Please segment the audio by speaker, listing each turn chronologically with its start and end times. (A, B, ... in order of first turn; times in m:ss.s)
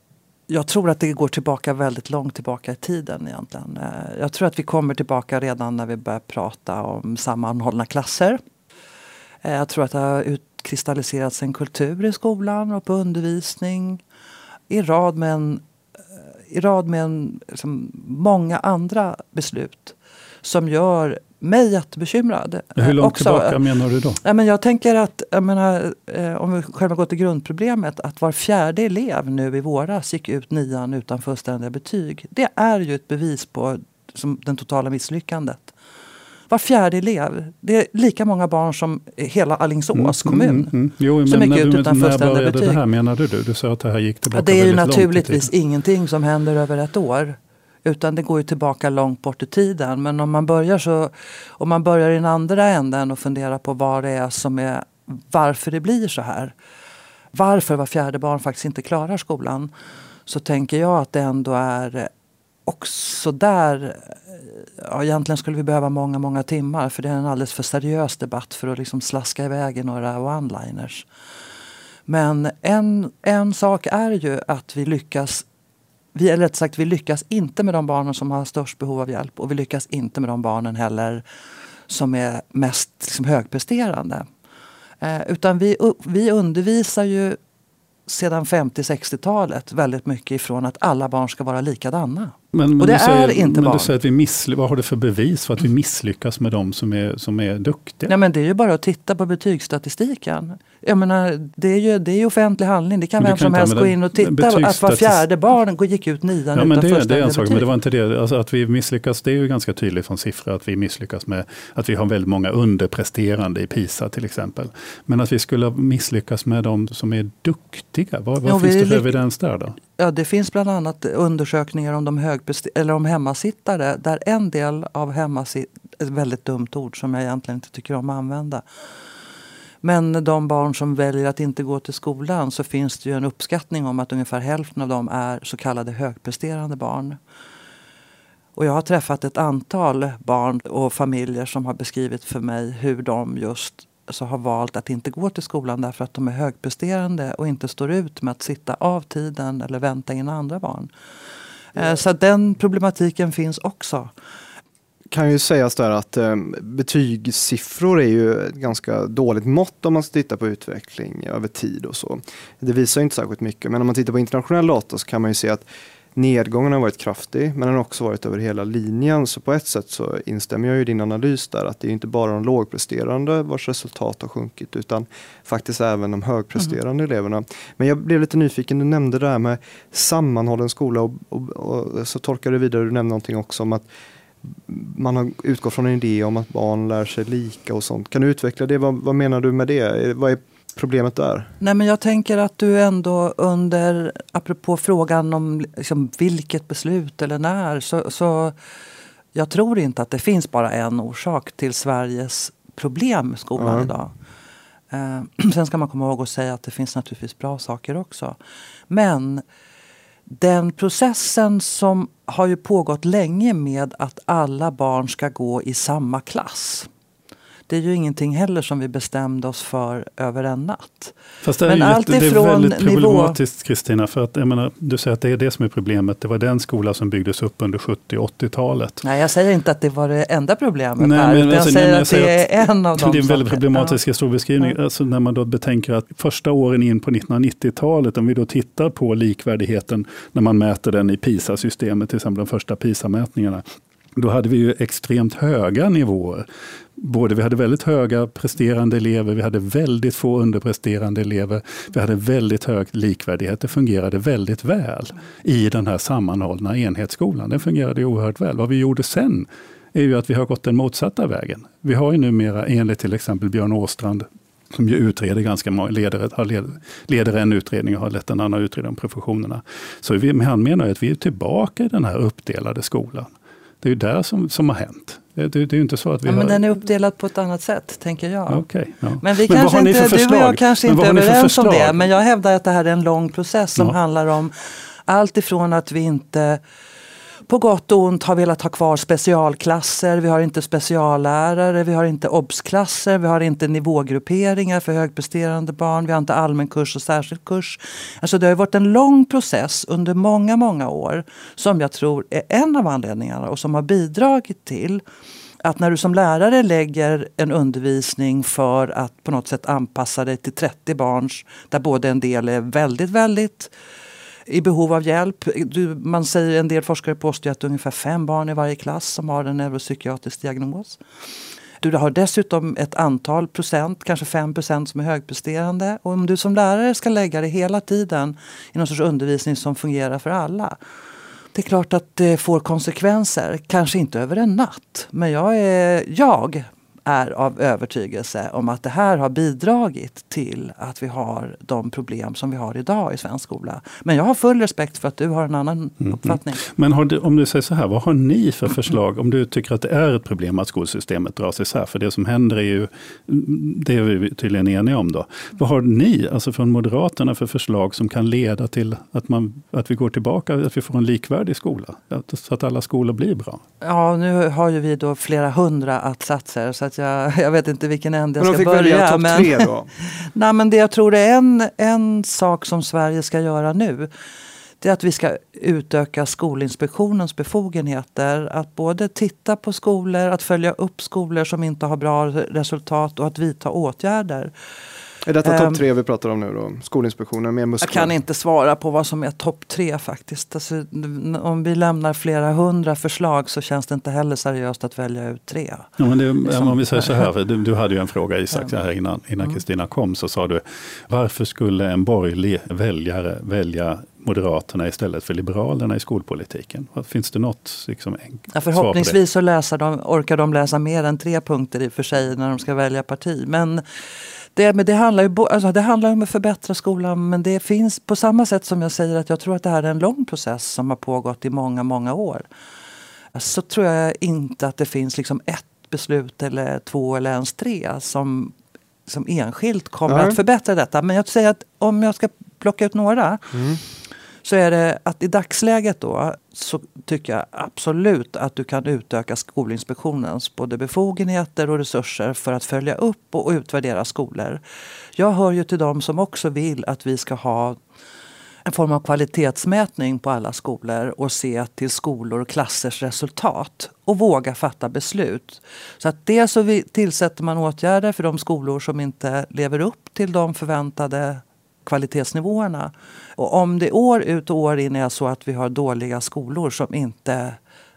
0:00.5-0:08.4 A
0:09.4-0:14.0 A
0:14.7-0:15.6 A
0:16.5-0:23.6 A
0:22.8-0:24.2 B
0:24.2-0:35.7 A
0:36.5-0:40.7 A
0:39.9-0:45.5 B
0:41.2-0:42.8 A
0:44.3-0:56.5 A
0:57.3-0:59.7 A
1:00.2-1:02.1 A
1:02.6-1:11.0 A
1:12.1-1:15.4 A
1:16.1-1:21.2 A
1:21.9-1:24.2 A
1:25.0-1:27.4 A
1:28.1-1:33.9 A
1:32.5-1:38.1 B
1:38.1-1:47.6 A
1:43.2-1:45.2 B
1:46.5-1:59.8 B
1:58.4-1:59.1 A
2:00.0-2:08.6 A
2:09.8-2:17.2 A
2:18.6-2:30.9 A
2:31.7-2:34.1 A
2:35.1-3:03.9 C
3:04.4-3:11.5 C
3:11.6-3:18.5 A
3:19.3-3:24.1 A
3:23.6-3:23.9 C
3:24.9-3:28.4 A
3:28.9-3:29.4 A
3:30.3-3:36.9 A
3:37.7-3:43.4 A
3:41.4-3:49.0 B
3:49.0-3:54.0 A
3:51.0-4:03.6 B
4:04.1-4:06.5 B
4:07.0-4:33.3 B
4:33.8-4:36.6 B
4:36.3-4:38.6 A
4:38.5-4:42.1 B
4:39.2-4:46.6 A
4:47.5-5:05.0 A
5:05.6-5:13.7 A
5:14.5-5:21.0 A
5:21.8-5:30.8 A
5:31.5-5:46.6 A
5:46.0-6:03.6 B
6:03.8-6:14.1 A
6:08.4-6:09.9 C
6:14.8-6:24.5 A
6:25.2-6:28.1 C
6:25.4-6:25.8 A
6:27.8-6:35.9 A
6:36.0-6:49.2 B
6:36.4-6:37.3 A
6:48.5-6:53.8 A
6:54.5-7:02.4 A
7:03.3-7:08.5 A
7:09.1-7:13.6 A
7:10.1-7:10.4 C
7:13.5-7:13.8 C
7:14.4-7:24.6 A
7:25.2-7:27.8 A
7:28.6-7:47.6 A